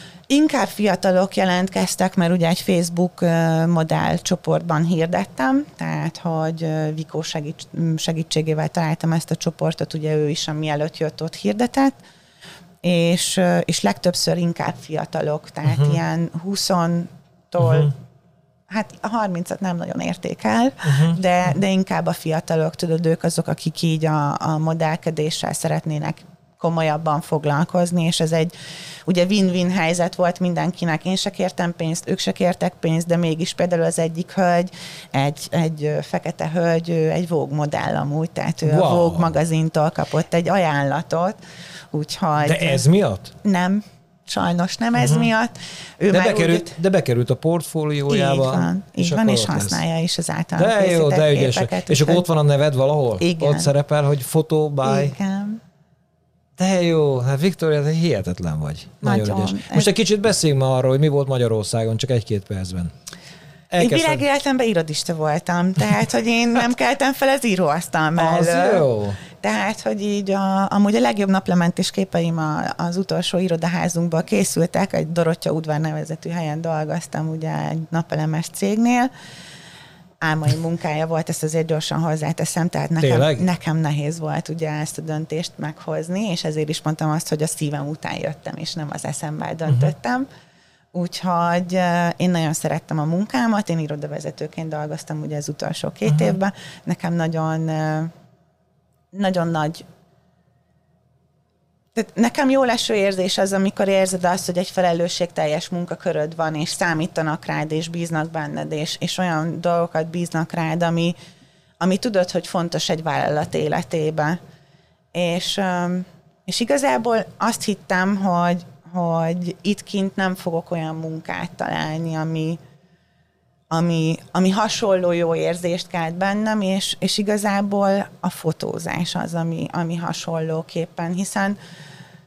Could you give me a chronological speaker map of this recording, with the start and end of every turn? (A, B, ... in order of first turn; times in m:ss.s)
0:00.3-0:12.0 A
0:12.8-0:17.9 A
0:15.6-0:16.0 B
0:17.6-0:17.9 B
0:18.7-0:28.5 A
0:20.8-0:21.2 B
0:29.1-0:41.4 A
0:38.6-0:39.3 B
0:41.9-0:42.8 A
0:42.4-0:43.3 B
0:43.4-0:46.8 A
0:45.0-0:45.3 B
0:46.1-0:49.8 B
0:48.1-0:52.2 A
0:50.6-0:55.2 B
0:53.2-0:53.7 A
0:54.8-0:55.6 A
0:56.6-1:02.9 B
0:59.0-0:59.9 A
1:03.7-1:04.2 B
1:03.8-1:19.1 A
1:08.2-1:09.2 B
1:20.2-1:30.3 A
1:23.0-1:23.5 B
1:30.9-1:38.1 A
1:36.1-1:36.4 B
1:39.1-1:39.8 A
1:41.9-1:51.2 A
1:51.8-1:54.4 A
1:55.1-2:02.6 A
2:03.7-2:11.6 A